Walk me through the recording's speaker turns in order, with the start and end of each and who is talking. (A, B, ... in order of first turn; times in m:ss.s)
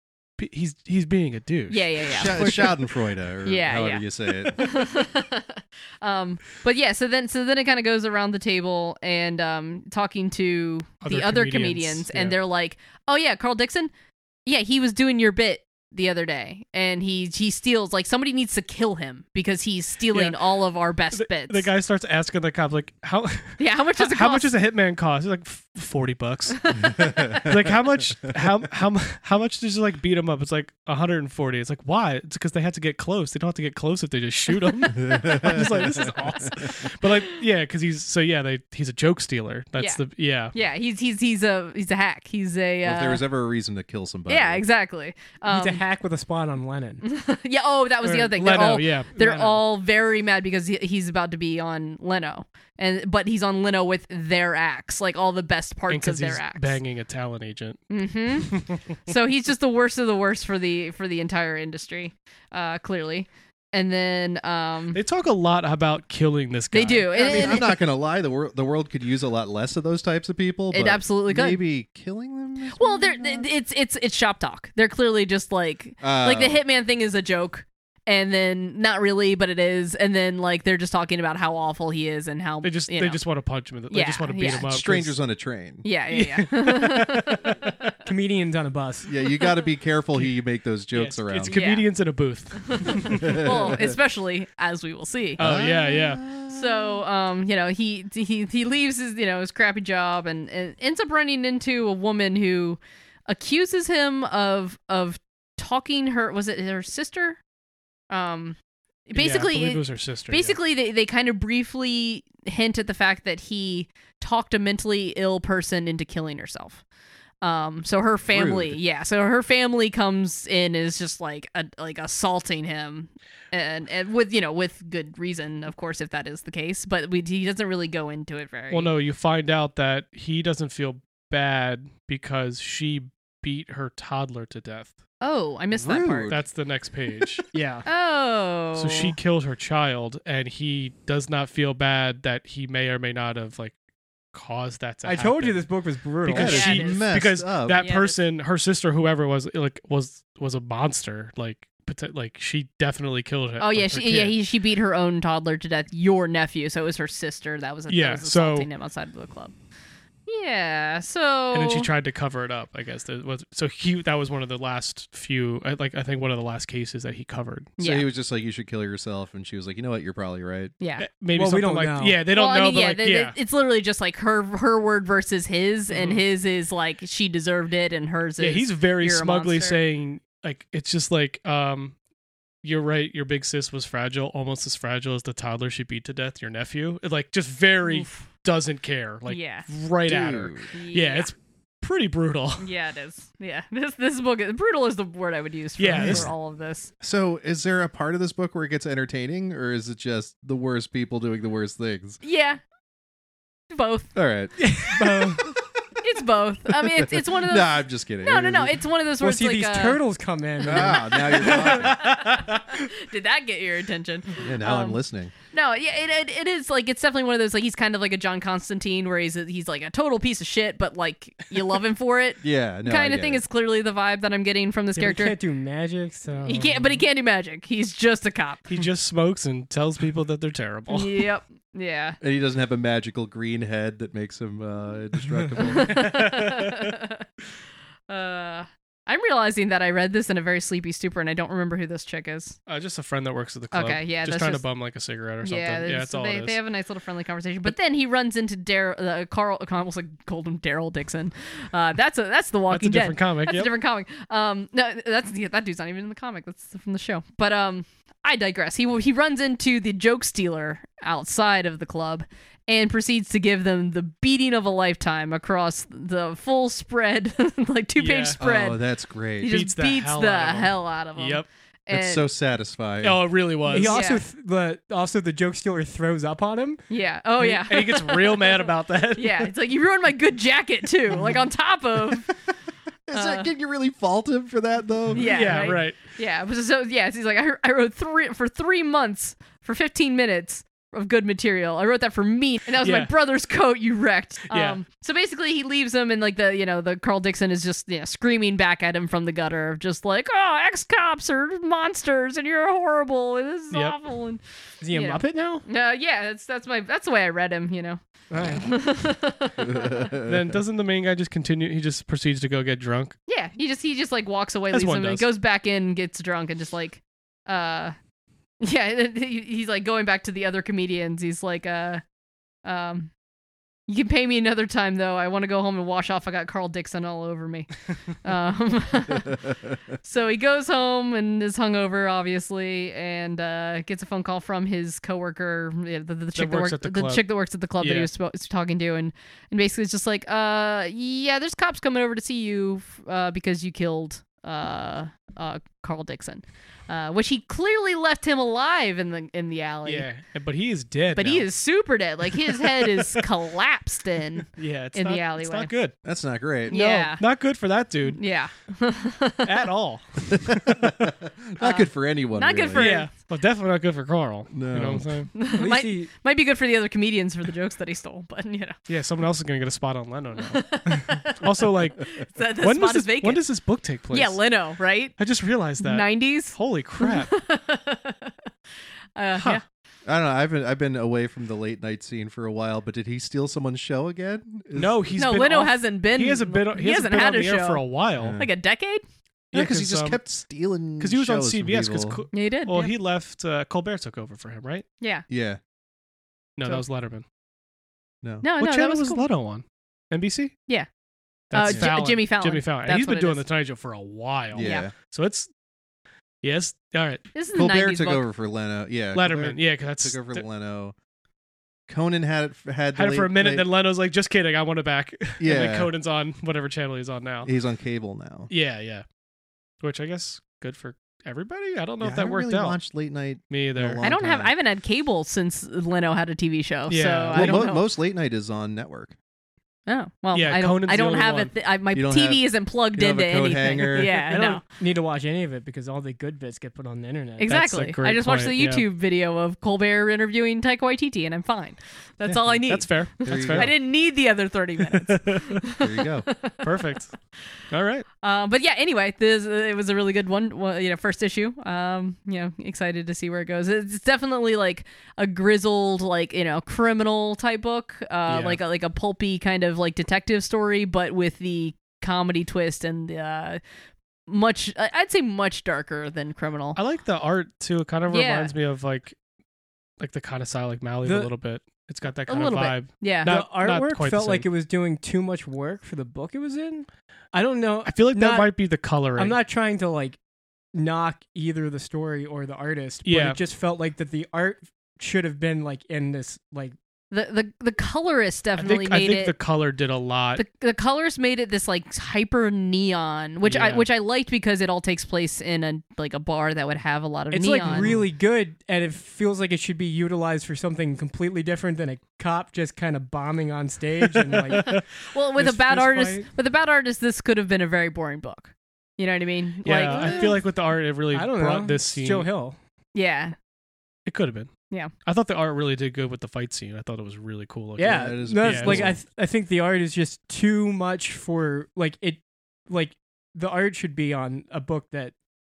0:00.4-0:02.5 A
0:01.7-0:02.8 B
0:02.0-0:04.9 C
0:03.4-0:13.9 B
0:11.0-0:12.4 A
0:14.4-0:21.7 B
0:21.1-0:26.8 A
0:23.6-0:24.5 B
0:26.6-0:27.4 B
0:26.9-0:27.5 C
0:27.4-0:40.5 A
0:35.0-0:36.7 C
0:40.5-0:43.2 B
0:42.8-0:44.6 C
0:44.3-0:45.8 B
0:45.5-0:47.0 D
0:47.0-0:56.8 B
0:48.0-0:49.6 A
0:55.9-0:58.8 A
0:57.9-1:05.0 B
1:04.9-1:07.6 A
1:06.7-1:07.7 B
1:07.1-1:13.5 C
1:10.7-1:11.6 B
1:12.7-1:23.2 B
1:16.0-1:16.6 C
1:22.6-1:25.2 A
1:23.9-1:24.7 B
1:24.5-1:25.8 C
1:25.8-1:27.6 B
1:26.1-1:27.8 A
1:28.0-1:29.1 D
1:29.0-1:31.6 C
1:30.9-1:33.4 A
1:31.5-1:31.9 B
1:32.7-1:35.4 B
1:33.1-1:33.9 C
1:35.4-1:36.2 A
1:35.4-1:37.0 C
1:36.5-1:47.4 B
1:48.1-1:48.6 B
1:49.1-1:56.8 B
1:49.1-1:50.6 A
1:57.4-2:08.9 B
1:58.3-1:58.8 C
2:08.7-2:15.0 A
2:15.2-2:16.4 B
2:15.7-2:16.4 C
2:16.3-2:17.4 A
2:17.5-2:17.8 D
2:17.8-2:19.2 B
2:18.8-2:23.7 A
2:24.3-2:25.7 A
2:25.0-2:27.0 D
2:26.2-2:34.4 A
2:26.3-2:27.8 C
2:26.4-2:27.0 B
2:27.7-2:28.2 B
2:33.6-2:39.5 B
2:37.9-2:38.7 A
2:40.2-2:41.9 B
2:41.5-2:47.7 A
2:47.8-2:48.1 B
2:47.8-2:50.7 C
2:50.8-2:51.0 B
2:51.0-2:53.4 A
2:51.3-2:52.2 D
2:52.3-2:59.8 B
2:55.9-2:56.2 A
2:58.4-3:02.0 A
3:02.6-3:12.7 A
3:07.8-3:08.2 B
3:09.3-3:09.7 B
3:10.0-3:10.7 C
3:10.7-3:11.3 B
3:12.6-3:16.9 B
3:15.8-3:16.3 A
3:16.0-3:16.3 C
3:17.0-3:22.2 C
3:22.2-3:22.6 B
3:23.7-3:24.1 B
3:24.1-3:25.7 C
3:24.6-3:25.5 D
3:26.0-3:30.0 B
3:26.9-3:28.8 C
3:29.2-3:31.9 D
3:30.6-3:32.4 C
3:31.4-3:35.0 B
3:34.4-3:35.3 C
3:35.5-3:45.4 B
3:42.4-3:43.4 C
3:44.9-3:47.0 D
3:46.4-3:48.8 B
3:48.7-3:51.2 A
3:50.9-3:52.2 B
3:52.2-3:56.1 C
3:55.6-3:57.2 B
3:56.0-3:56.5 A
3:58.1-4:02.6 B
4:02.7-4:06.6 A
4:03.7-4:04.6 B
4:05.4-4:28.8 B
4:12.7-4:13.7 A
4:28.0-4:28.4 A
4:28.4-4:29.6 C
4:29.4-4:32.3 B
4:29.4-4:31.5 A
4:31.9-4:33.2 C
4:33.0-4:34.0 A
4:33.7-4:36.8 D
4:33.8-4:34.2 B
4:36.9-4:42.3 B
4:37.4-4:39.5 A
4:43.1-4:45.7 C
4:43.1-4:43.5 B
4:45.1-5:10.0 B
4:45.1-4:46.0 A
4:52.8-4:53.1 A
4:54.5-4:54.8 A
5:04.8-5:05.6 D
5:08.3-5:08.8 D
5:09.6-5:10.6 C
5:10.2-5:13.1 A
5:13.3-5:17.9 B
5:14.7-5:15.2 A
5:18.6-5:22.0 B
5:22.6-5:23.1 B
5:23.9-5:29.5 B
5:30.0-5:50.1 B
5:36.3-5:38.1 A
5:49.8-5:51.5 A
5:51.1-5:55.7 B
5:52.3-5:53.2 A
5:54.5-5:55.9 A
5:56.0-5:56.7 C
5:56.6-5:58.2 A
5:56.7-5:57.2 B
5:58.1-5:59.5 B
5:59.4-6:00.9 A
6:00.7-6:03.0 C
6:01.6-6:03.1 B
6:02.7-6:05.3 A
6:04.5-6:05.3 C
6:05.3-6:08.7 B
6:05.5-6:06.1 D
6:08.9-6:14.5 A
6:10.5-6:13.4 B
6:14.1-6:15.2 B
6:15.2-6:17.3 A
6:15.8-6:18.5 B
6:19.2-6:19.6 B
6:19.3-6:19.6 A
6:20.0-6:25.0 C
6:24.7-6:28.4 A
6:25.2-6:29.0 B
6:28.2-6:28.5 C
6:29.5-6:30.2 A
6:29.5-6:32.2 C
6:31.0-6:34.8 A
6:32.3-6:32.9 B
6:35.3-6:35.6 C
6:36.6-6:37.2 A
6:38.4-6:39.2 B
6:38.6-6:40.6 A
6:41.5-6:45.5 A
6:41.5-6:43.4 B
6:44.5-6:44.9 C
6:44.6-6:44.9 B
6:46.4-6:47.2 A
6:47.3-6:48.2 B
6:47.5-6:50.9 C
6:49.1-6:50.4 A
6:51.9-6:53.6 C
6:52.9-6:57.5 A
6:55.4-6:55.9 C
6:57.4-6:58.5 C
6:58.5-6:59.0 A
6:59.8-7:02.8 A
7:02.0-7:04.5 C
7:03.5-7:04.0 A
7:04.0-7:07.9 B
7:06.9-7:07.6 A
7:07.3-7:09.1 C
7:09.9-7:14.6 B
7:10.3-7:11.5 A
7:11.9-7:14.2 C
7:14.0-7:17.5 D
7:17.4-7:26.9 B
7:17.5-7:18.8 A
7:22.6-7:23.8 A
7:23.2-7:23.8 C
7:24.9-7:25.6 A
7:25.8-7:26.3 C
7:26.6-7:27.2 A
7:27.7-7:28.0 A
7:28.2-7:43.6 B
7:38.3-7:38.6 A
7:44.3-7:46.8 B
7:46.8-7:49.2 A
7:48.1-7:48.5 B
7:50.0-7:54.4 A
7:51.0-7:51.3 D
7:52.3-7:53.3 B
7:53.2-7:58.5 D
7:57.8-7:59.4 A
7:59.2-8:00.2 D
8:00.7-8:06.7 D
8:03.0-8:03.4 A
8:07.1-8:09.3 B
8:08.6-8:10.4 A
8:10.4-8:17.9 B
8:13.4-8:13.9 A
8:17.3-8:24.8 D
8:17.6-8:18.0 A
8:24.2-8:24.8 A
8:24.6-8:30.4 B
8:25.4-8:26.3 D
8:29.6-8:32.3 A
8:29.8-8:30.4 D
8:31.1-8:32.6 D
8:32.9-8:33.4 B
8:34.0-8:34.5 A
8:35.0-8:38.9 A
8:37.8-8:45.1 D
8:37.8-8:39.0 C